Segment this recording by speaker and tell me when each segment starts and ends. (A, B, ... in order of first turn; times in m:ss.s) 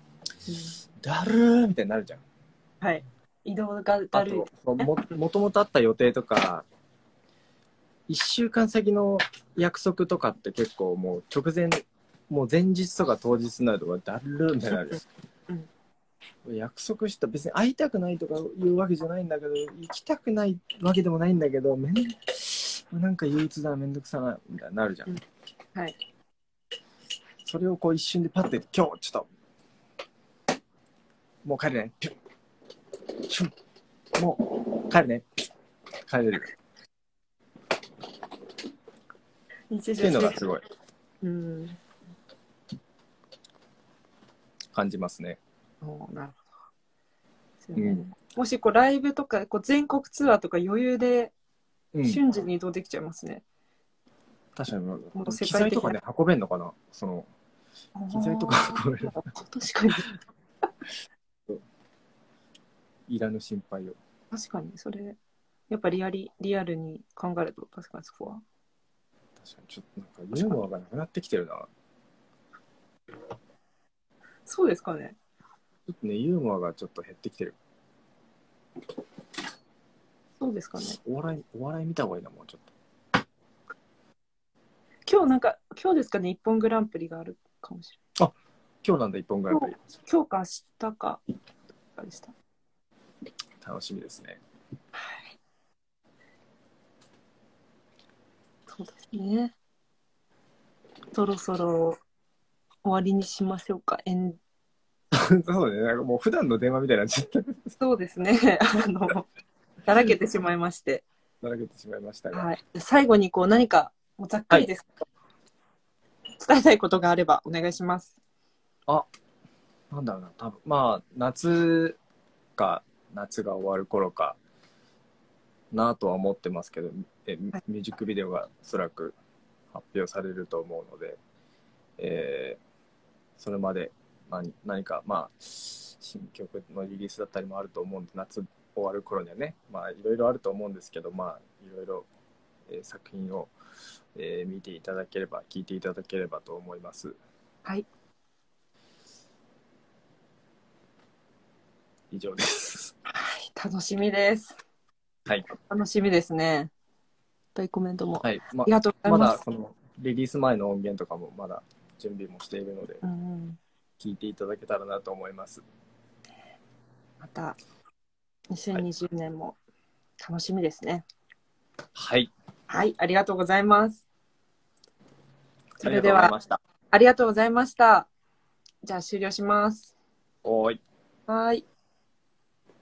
0:00.5-0:00.8 A
0:01.0-0:02.2 B
0:02.8-0:04.9 A
0:04.1-0:06.6 B
0:08.1-0:15.0 B
0:16.4-0:25.1 B
0:27.4-0:29.3 B
0:31.4-0:32.2 B
0:33.1-0:33.5 B
0:34.2-0:35.2 B
0:36.0-0:36.5 B
0:39.7-0:40.4 A
0:40.0-0:40.6 B
0:41.2-0:41.8 A
0:44.7-0:45.4 B
0:45.8-0:46.5 A
0:47.6-0:51.3 A
0:47.7-0:48.0 B
0:51.9-0:52.2 B
0:52.0-0:53.4 A
0:54.6-0:57.3 B
0:55.1-0:56.0 A
0:58.0-1:00.1 A
0:58.1-0:59.2 B
1:03.1-1:04.0 B
1:04.3-1:05.2 A
1:05.7-1:08.4 A
1:09.4-1:11.7 B
1:14.4-1:15.2 A
1:15.9-1:17.6 B
1:20.4-1:21.0 A
1:21.0-1:22.7 B
1:25.0-1:28.0 A
1:28.2-1:29.7 B
1:29.5-1:31.2 A
1:32.0-1:32.3 A
1:33.6-1:34.4 B
1:35.0-1:35.3 A
1:38.7-1:39.5 A
1:41.1-1:42.0 A
1:42.8-1:44.4 A
1:45.1-1:47.7 B
1:47.8-1:49.3 A
1:49.8-1:51.0 A
1:51.4-1:52.5 B
1:52.3-1:54.9 A
1:56.4-1:58.1 A
1:59.9-2:02.0 B
2:02.6-2:04.4 B
2:05.7-2:09.2 B
2:09.7-2:11.2 B
2:12.0-2:12.6 B
2:13.4-2:22.1 B
2:22.7-2:23.5 B
2:24.1-2:27.2 B
2:32.1-2:32.9 B
2:33.1-2:34.5 A
2:35.5-2:36.7 A
2:37.5-2:39.4 A
2:38.2-2:43.0 B
2:43.0-2:43.6 A
2:44.0-2:45.6 B
2:47.2-2:47.6 A
2:48.5-2:49.6 A
2:50.2-2:51.0 A
2:52.0-2:52.3 B
2:52.7-2:54.0 A
2:55.8-2:56.3 A
2:55.8-2:56.6 B
2:56.9-2:58.1 A
2:58.8-2:59.9 A
3:00.4-3:00.8 B
3:01.3-3:01.6 A